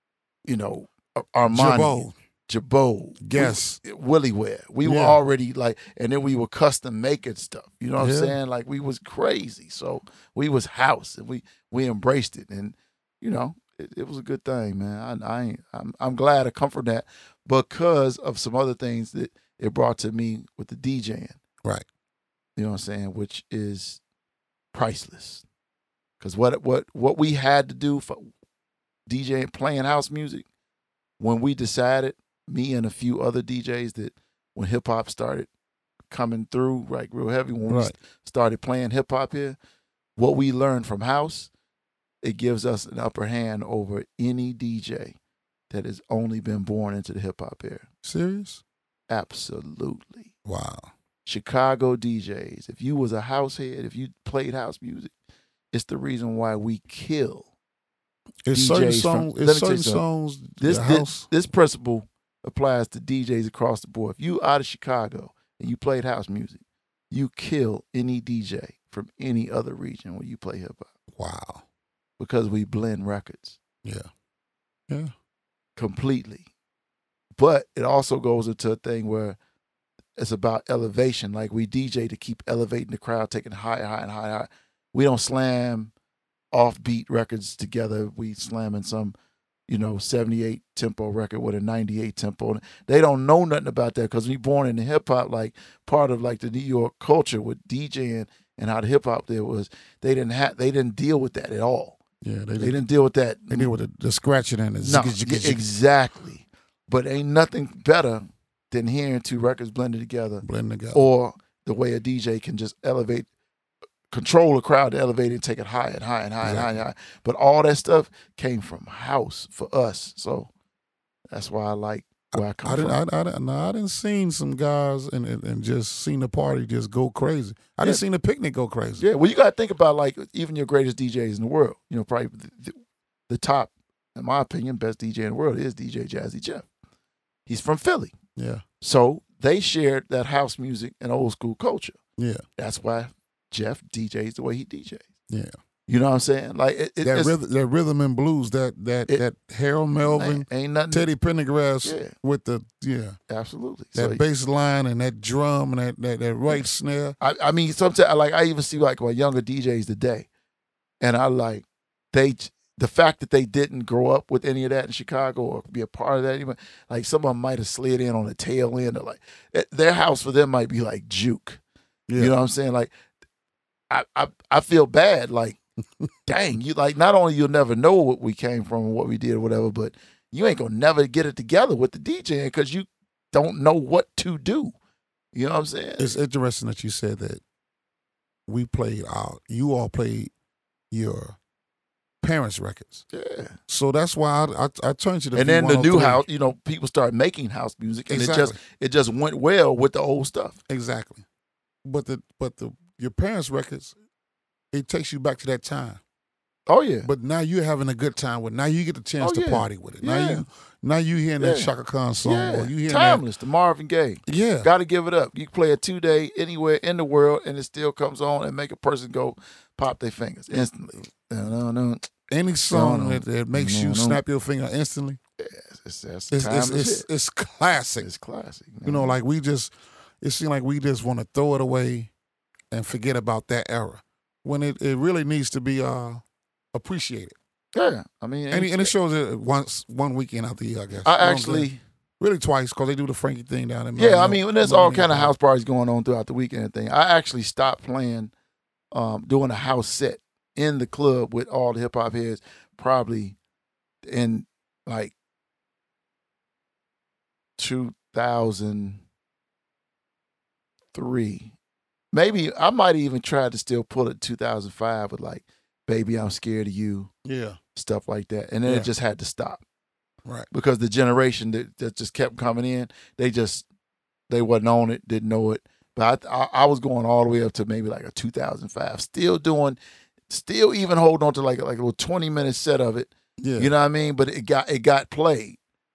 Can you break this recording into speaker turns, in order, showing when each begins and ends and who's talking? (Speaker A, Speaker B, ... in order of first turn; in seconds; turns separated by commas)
Speaker A: 0.5-21.4, Speaker B: 1.5-2.1, Speaker B: 3.2-3.8, Speaker B: 4.8-5.2, Speaker B: 8.0-8.3, Speaker A: 22.6-24.0, Speaker A: 24.7-25.4, Speaker A: 26.2-28.3, Speaker A: 29.1-30.4, Speaker A: 31.2-35.5, Speaker A: 36.1-39.6, Speaker B: 37.7-37.9, Speaker A: 40.2-41.5, Speaker A: 42.2-45.1, Speaker A: 45.7-47.9, Speaker B: 48.0-48.6, Speaker A: 49.1-50.3, Speaker B: 50.4-50.9, Speaker A: 51.2-55.1, Speaker A: 55.7-57.5, Speaker B: 58.5-61.2, Speaker A: 58.5-60.0, Speaker A: 60.6-70.9, Speaker B: 71.2-71.6, Speaker A: 72.2-73.6, Speaker B: 73.8-74.1, Speaker A: 75.8-76.5, Speaker A: 77.3-79.4, Speaker A: 80.2-85.9, Speaker A: 86.5-89.1, Speaker A: 89.7-102.0, Speaker B: 102.2-102.8, Speaker A: 102.6-103.7, Speaker B: 103.5-105.6, Speaker A: 104.8-110.4, Speaker B: 110.4-111.0, Speaker A: 110.9-113.3, Speaker A: 114.1-120.5, Speaker B: 116.4-116.8, Speaker A: 121.3-123.0, Speaker B: 122.6-129.0, Speaker A: 129.0-136.7, Speaker A: 137.5-138.1, Speaker B: 138.3-138.6, Speaker A: 138.8-142.0, Speaker B: 142.2-142.4, Speaker A: 142.6-145.1, Speaker B: 145.3-145.6, Speaker A: 145.9-147.3, Speaker B: 147.0-153.2, Speaker A: 150.0-151.1, Speaker A: 151.8-152.1, Speaker A: 153.3-154.2, Speaker B: 153.9-157.2, Speaker A: 157.2-160.3, Speaker A: 161.0-171.6, Speaker B: 172.1-172.3, Speaker A: 172.2-172.9, Speaker A: 173.9-175.6, Speaker A: 176.3-184.7, Speaker A: 185.3-186.2, Speaker B: 186.0-187.4, Speaker B: 188.5-190.3, Speaker B: 190.9-191.4, Speaker B: 192.2-193.0, Speaker A: 193.1-193.6, Speaker B: 193.7-196.2, Speaker A: 195.3-200.6, Speaker B: 198.1-198.6, Speaker B: 200.7-201.2, Speaker B: 201.8-203.9, Speaker B: 204.7-206.0, Speaker A: 206.7-207.1, Speaker B: 207.0-213.2, Speaker A: 209.2-210.4, Speaker A: 211.4-211.7, Speaker A: 212.2-222.1, Speaker B: 214.2-214.7, Speaker B: 222.3-225.2, Speaker A: 222.7-224.2, Speaker A: 225.4-227.1, Speaker B: 226.3-228.1, Speaker A: 228.0-229.1, Speaker B: 228.8-232.1, Speaker B: 232.7-236.2, Speaker B: 236.7-237.3, Speaker A: 237.7-238.9, Speaker B: 238.5-245.3, Speaker A: 241.0-241.8, Speaker A: 243.9-248.3, Speaker A: 248.9-253.4, Speaker A: 254.0-255.1, Speaker A: 257.6-259.0, Speaker A: 260.9-261.5, Speaker A: 262.1-267.1, Speaker B: 267.2-267.6, Speaker A: 267.7-269.6, Speaker A: 270.5-273.6, Speaker A: 274.3-279.8, Speaker A: 280.3-285.6, Speaker B: 283.4-283.7